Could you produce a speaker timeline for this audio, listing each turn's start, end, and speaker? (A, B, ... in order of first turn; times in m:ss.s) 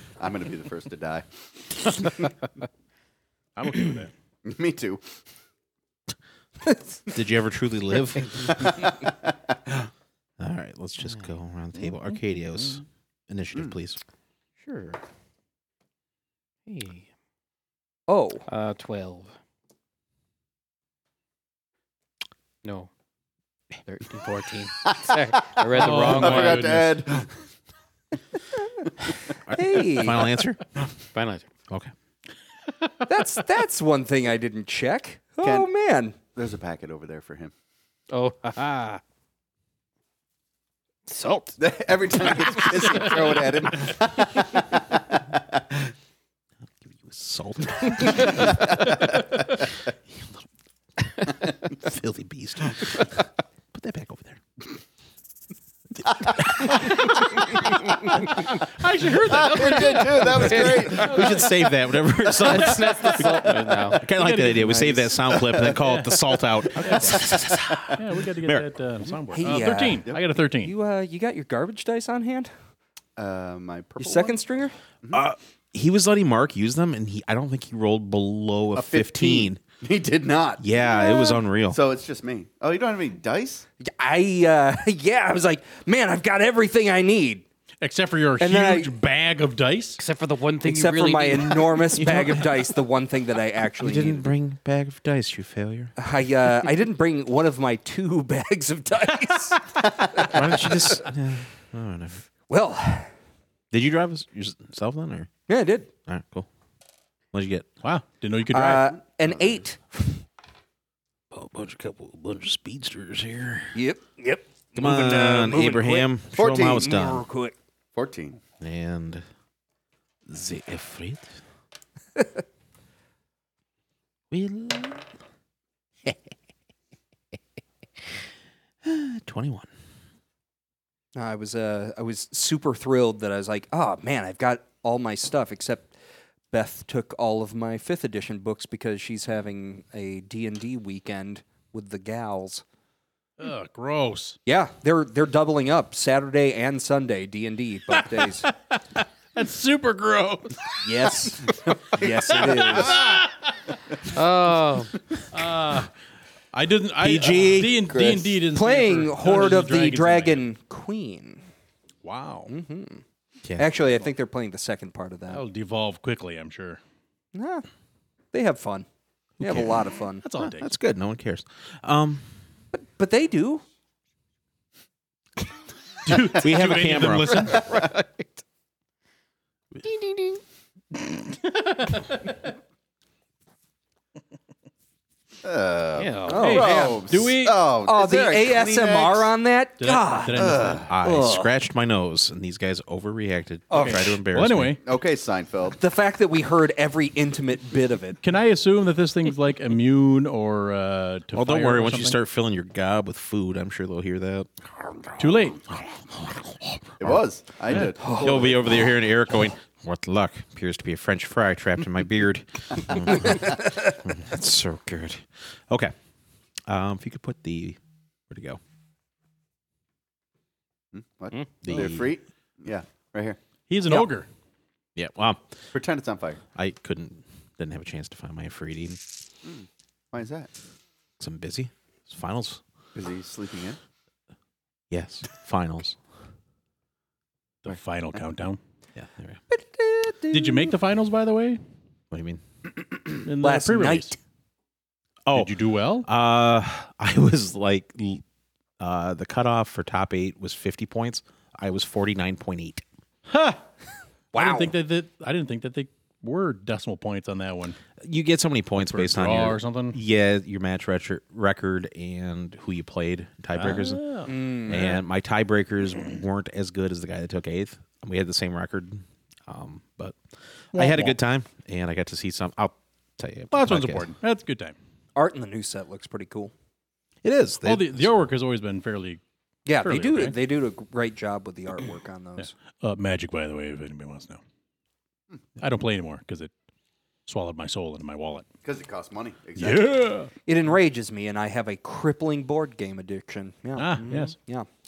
0:00.2-0:02.3 A
0:03.6-0:04.1 B
0:04.4-0:05.0 A
0:07.1-0:08.7 C
0:08.6-0:09.3 A
0:10.4-0:14.0 C
0:14.6-0:15.0 D
0:16.6-0:17.1 D
0:18.1-0:18.4 E
0:18.5-0:19.3 D
0:22.6-0:22.9 D
0:23.8-0:26.8 D
0:24.9-0:27.4 A
0:25.7-0:26.9 B
0:29.5-0:30.8 C
0:29.5-0:30.3 E
0:31.1-0:31.5 D
0:33.0-0:36.2 E
0:36.3-0:37.5 A
0:38.1-0:39.0 D
0:41.0-0:41.6 D
0:41.6-0:45.6 A
0:46.8-0:48.6 C
0:47.9-0:49.2 A
0:50.1-0:50.4 C
0:51.1-0:53.1 C
0:53.7-0:54.4 C
0:56.1-0:56.7 C
0:56.1-0:56.9 A
0:58.3-1:01.5 B
0:59.2-1:01.4 A
1:00.4-1:01.0 D
1:00.5-1:08.7 C
1:02.4-1:04.1 D
1:02.7-1:03.5 B
1:04.0-1:04.9 B
1:04.7-1:05.1 E
1:05.6-1:07.2 B
1:07.8-1:10.7 B
1:09.3-1:10.1 E
1:10.6-1:12.5 E
1:13.2-1:14.4 A
1:14.0-1:14.8 E
1:15.1-1:19.6 C
1:18.7-1:20.7 A
1:20.6-1:21.8 C
1:21.7-1:23.6 A
1:23.8-1:27.4 E
1:27.8-1:30.0 B
1:28.4-1:28.9 E
1:30.0-1:32.0 D
1:30.6-1:34.3 E
1:33.8-1:35.9 C
1:36.0-1:39.6 E
1:40.1-1:40.8 E
1:40.1-1:42.2 C
1:42.5-1:43.1 E
1:43.7-1:45.3 C
1:45.5-1:45.9 E
1:46.0-1:46.5 C
1:47.3-1:47.7 C
1:47.8-1:48.9 B
1:48.5-1:50.0 E
1:49.2-1:49.6 A
1:51.3-1:53.7 C
1:53.7-1:57.5 E
1:54.7-1:57.2 C
1:57.9-1:58.4 A
1:58.6-1:59.2 C
2:00.2-2:01.4 C
2:04.3-2:05.0 C
2:08.8-2:09.7 C
2:11.1-2:15.9 E
2:16.5-2:22.6 E
2:23.4-2:24.4 B
2:24.4-2:28.5 E
2:27.9-2:31.3 B
2:30.8-2:33.1 E
2:32.0-2:33.5 B
2:34.0-2:35.0 D
2:35.3-2:35.9 B
2:36.5-2:40.4 B
2:37.0-2:37.9 C
2:37.9-2:38.2 A
2:38.5-2:41.4 E
2:42.0-2:42.5 B
2:42.5-2:43.0 E
2:43.6-2:45.4 E
2:45.3-2:46.8 B
2:47.3-2:47.6 E
2:48.3-2:48.8 E
2:49.4-2:49.8 C
2:49.4-2:50.2 E
2:50.2-2:50.7 B
2:50.4-2:52.2 C
2:52.7-2:53.6 E
2:56.0-2:57.6 B
2:56.4-2:57.6 C
2:57.5-2:57.8 A
2:57.5-2:58.4 D
2:59.8-3:00.4 D
3:01.0-3:02.3 B
3:05.4-3:09.3 A
3:06.0-3:06.6 D
3:06.3-3:07.0 E
3:06.3-3:07.6 B
3:07.8-3:11.5 E
3:09.8-3:10.8 B
3:10.3-3:10.9 A
3:10.9-3:14.8 C
3:13.7-3:14.1 E
3:13.7-3:14.8 B
3:14.8-3:15.8 A
3:15.8-3:18.2 E
3:18.2-3:22.2 B
3:21.3-3:35.9 C
3:25.2-3:25.6 B
3:27.0-3:28.8 A
3:28.0-3:28.4 E
3:36.7-3:38.6 C
3:40.9-3:43.4 A
3:41.6-3:42.1 C
3:43.7-3:44.3 B
3:45.0-3:45.5 C
3:45.7-3:46.4 A
3:46.5-3:49.0 C
3:49.4-3:50.5 A
3:51.2-3:52.6 C
3:52.9-3:53.8 A
3:54.9-3:56.0 C
3:57.6-3:58.6 B
3:59.0-3:59.4 C
3:59.5-4:00.7 E
4:00.3-4:01.6 B
4:02.1-4:02.4 C
4:03.2-4:04.1 B
4:03.4-4:04.2 E
4:05.2-4:08.2 C
4:05.3-4:06.1 B
4:08.8-4:12.8 C
4:13.3-4:13.6 B
4:14.3-4:14.7 E
4:14.3-4:17.8 B
4:18.0-4:24.0 C
4:18.8-4:20.0 B
4:23.5-4:25.0 B
4:24.2-4:24.8 E
4:24.7-4:30.2 C
4:30.7-4:34.1 C
4:30.7-4:31.2 B
4:33.5-4:34.7 B
4:35.2-4:36.5 E
4:37.2-4:38.1 C
4:37.6-4:39.2 B
4:39.6-4:42.5 E
4:39.8-4:40.3 B
4:42.4-4:44.4 B
4:45.6-4:46.5 B
4:47.3-4:48.4 B
4:48.6-4:49.9 A
4:49.6-4:50.3 B
4:50.4-4:54.7 E
4:53.8-4:54.3 B
4:54.0-4:54.3 D